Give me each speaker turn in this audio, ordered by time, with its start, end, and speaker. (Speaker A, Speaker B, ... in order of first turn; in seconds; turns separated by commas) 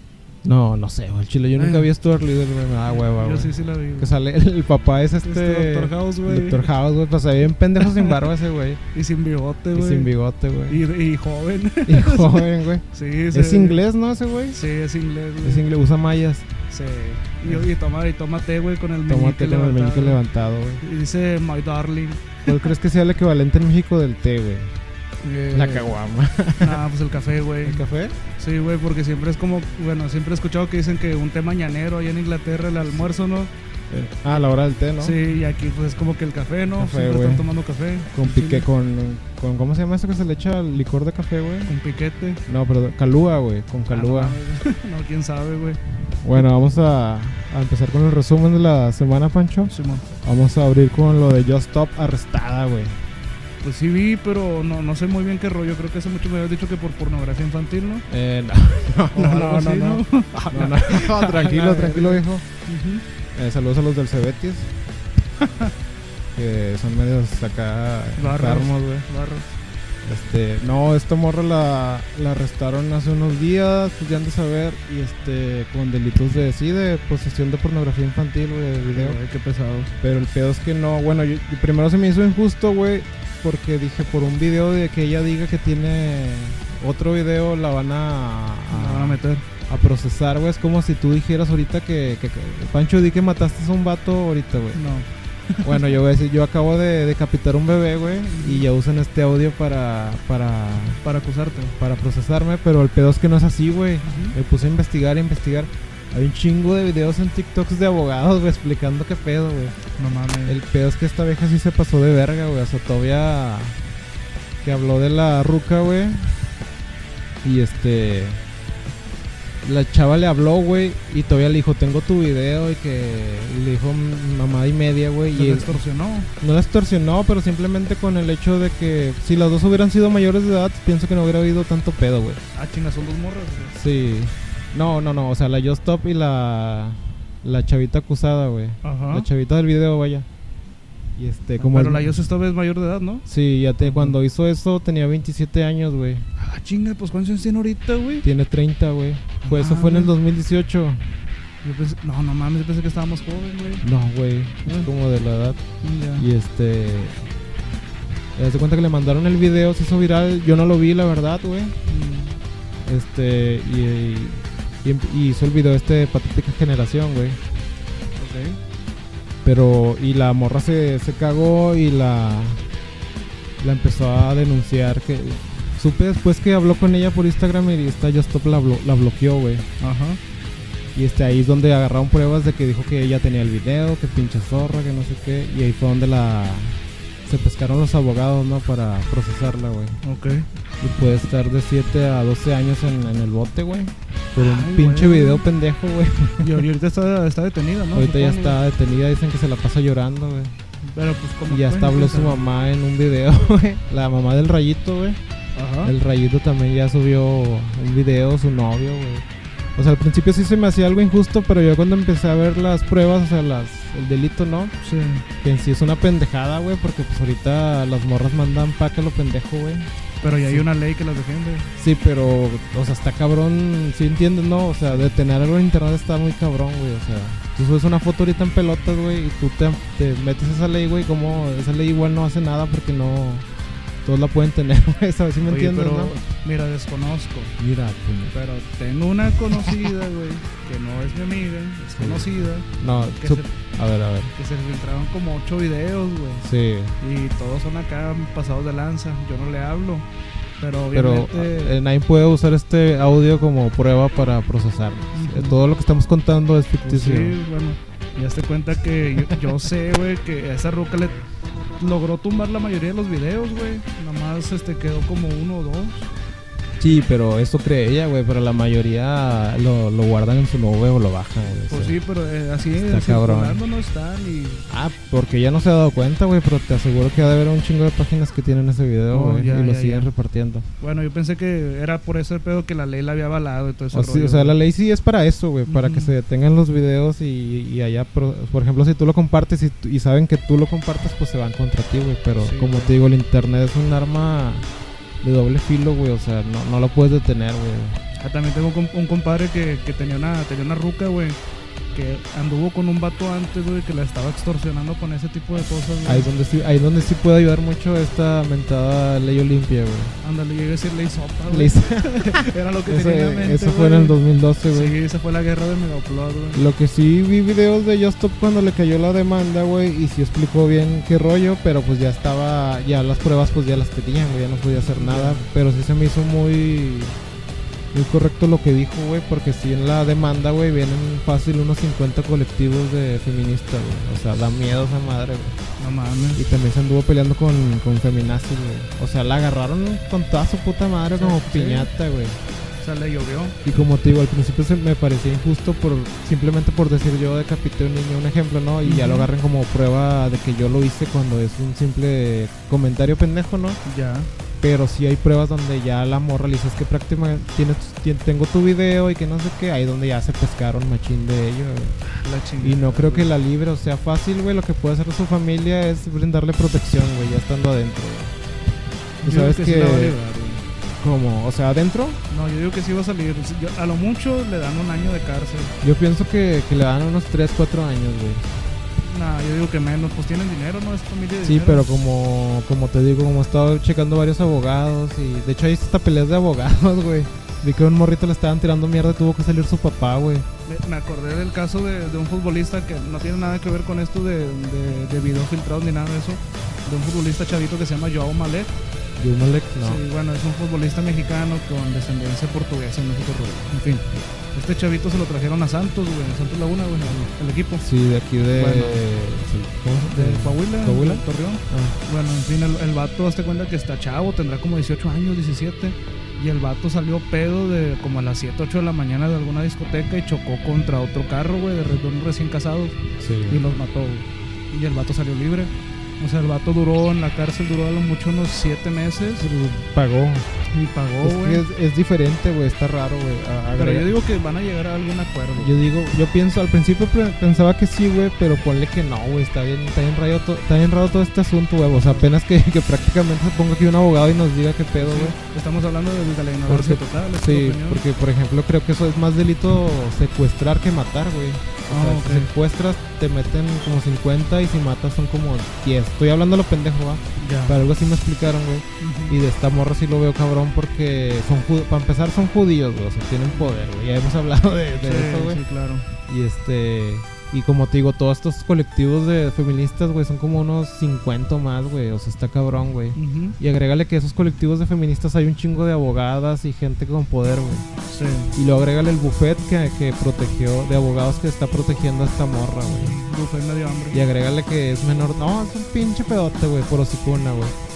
Speaker A: 0.4-8.8, Speaker B: 1.6-1.9, Speaker B: 2.9-4.1, Speaker B: 5.2-6.7, Speaker B: 7.8-8.1, Speaker B: 8.9-10.1, Speaker A: 9.7-10.8, Speaker B: 10.7-13.8, Speaker A: 11.8-14.6, Speaker B: 14.5-15.7, Speaker A: 15.4-16.5, Speaker B: 16.7-20.2, Speaker A: 19.1-20.8, Speaker B: 20.8-22.7, Speaker A: 22.4-24.7, Speaker B: 25.2-25.9, Speaker A: 25.5-26.8, Speaker B: 26.6-27.8, Speaker A: 27.6-28.1, Speaker B: 28.4-33.5, Speaker A: 33.9-35.2, Speaker B: 35.0-38.6, Speaker A: 36.8-37.5, Speaker A: 38.1-41.7, Speaker B: 41.7-42.4, Speaker A: 42.5-44.4, Speaker B: 43.9-45.8, Speaker A: 46.2-49.7, Speaker B: 49.7-50.0, Speaker A: 50.2-53.0, Speaker B: 53.6-58.0, Speaker A: 58.1-62.4, Speaker B: 59.1-63.0, Speaker A: 63.3-64.7, Speaker B: 65.4-65.7, Speaker A: 66.3-69.1, Speaker B: 68.2-69.5, Speaker A: 70.0-79.2, Speaker B: 78.9-79.9, Speaker A: 80.0-94.8, Speaker B: 88.7-89.4, Speaker B: 94.7-96.0, Speaker A: 95.6-101.0, Speaker B: 98.3-98.7, Speaker B: 101.0-101.8, Speaker A: 101.8-109.8, Speaker B: 104.0-104.3, Speaker B: 110.0-110.6, Speaker A: 110.5-113.8, Speaker A: 114.6-116.3, Speaker A: 117.4-118.4, Speaker A: 119.6-125.8, Speaker B: 125.3-126.3, Speaker A: 126.4-132.4, Speaker B: 132.5-133.8, Speaker A: 133.7-140.3, Speaker B: 138.8-139.3, Speaker A: 141.2-142.2, Speaker B: 141.6-143.2, Speaker A: 143.2-146.2, Speaker B: 143.8-144.2, Speaker B: 146.4-148.2, Speaker A: 148.2-151.0, Speaker B: 149.4-150.1, Speaker B: 151.6-153.8, Speaker A: 153.8-155.6, Speaker B: 155.8-156.3, Speaker A: 156.2-157.2, Speaker A: 158.3-161.8, Speaker B: 161.9-162.3, Speaker A: 162.8-167.4, Speaker B: 168.2-168.6, Speaker A: 169.4-172.6, Speaker A: 173.6-179.7, Speaker B: 179.8-180.2, Speaker A: 180.9-190.0, Speaker B: 190.0-190.5, Speaker A: 190.8-196.6, Speaker B: 194.4-195.4, Speaker B: 196.4-198.6, Speaker A: 197.9-200.6, Speaker B: 200.8-202.5, Speaker A: 201.5-205.2, Speaker B: 205.6-205.9, Speaker A: 205.8-209.2, Speaker A: 209.8-214.7, Speaker B: 214.8-215.2, Speaker A: 215.4-219.9, Speaker B: 220.2-221.7, Speaker A: 221.8-233.5, Speaker A: 234.0-236.2, Speaker B: 235.4-237.5, Speaker A: 237.6-238.3, Speaker B: 238.3-242.7, Speaker A: 239.5-239.9, Speaker A: 241.9-244.3, Speaker B: 243.2-243.5, Speaker B: 244.3-246.4, Speaker A: 246.4-246.9, Speaker B: 247.0-250.1, Speaker B: 250.6-251.7, Speaker A: 250.9-257.4, Speaker B: 255.1-255.6, Speaker B: 256.8-261.2, Speaker A: 259.2-259.4, Speaker B: 261.8-266.1, Speaker A: 266.8-271.9, Speaker B: 271.7-274.7, Speaker A: 272.7-273.6, Speaker A: 274.7-280.6, Speaker B: 279.1-280.1, Speaker B: 280.8-284.6, Speaker A: 283.9-294.7, Speaker B: 285.6-286.1, Speaker B: 292.4-292.9, Speaker A: 295.2-298.0, Speaker B: 298.2-301.4, Speaker B: 301.9-306.3, Speaker A: 306.0-310.1, Speaker B: 310.2-314.2, Speaker A: 311.5-314.9, Speaker B: 314.7-316.7, Speaker A: 316.5-327.1, Speaker B: 324.9-325.5, Speaker A: 327.9-335.6, Speaker B: 335.8-336.4, Speaker A: 336.4-342.4, Speaker B: 341.1-341.9, Speaker B: 342.8-343.6, Speaker A: 343.6-353.8, Speaker B: 348.8-349.3, Speaker B: 353.8-354.3, Speaker A: 354.6-362.0, Speaker B: 362.1-363.3, Speaker A: 362.6-368.3, Speaker A: 369.2-370.2, Speaker B: 369.2-370.6, Speaker A: 371.0-372.2, Speaker B: 372.3-375.7, Speaker A: 375.8-378.5, Speaker B: 379.0-381.9, Speaker A: 381.4-390.4, Speaker B: 390.6-398.7, Speaker A: 399.2-400.0, Speaker B: 399.8-407.8, Speaker A: 407.8-411.9, Speaker B: 408.5-409.0, Speaker B: 410.1-423.0, Speaker A: 423.2-423.6, Speaker B: 423.5-429.5, Speaker A: 429.4-430.5, Speaker B: 430.7-431.6, Speaker A: 431.2-434.1, Speaker B: 433.7-435.7, Speaker A: 435.6-445.4, Speaker B: 441.9-442.3, Speaker B: 445.0-448.0, Speaker A: 446.7-465.6, Speaker B: 451.9-452.5, Speaker B: 457.4-457.8, Speaker B: 459.0-459.4, Speaker B: 465.0-466.1, Speaker A: 466.3-477.9, Speaker B: 473.1-473.6, Speaker B: 478.1-478.5, Speaker A: 478.5-483.2, Speaker B: 482.9-484.2, Speaker A: 484.1-487.8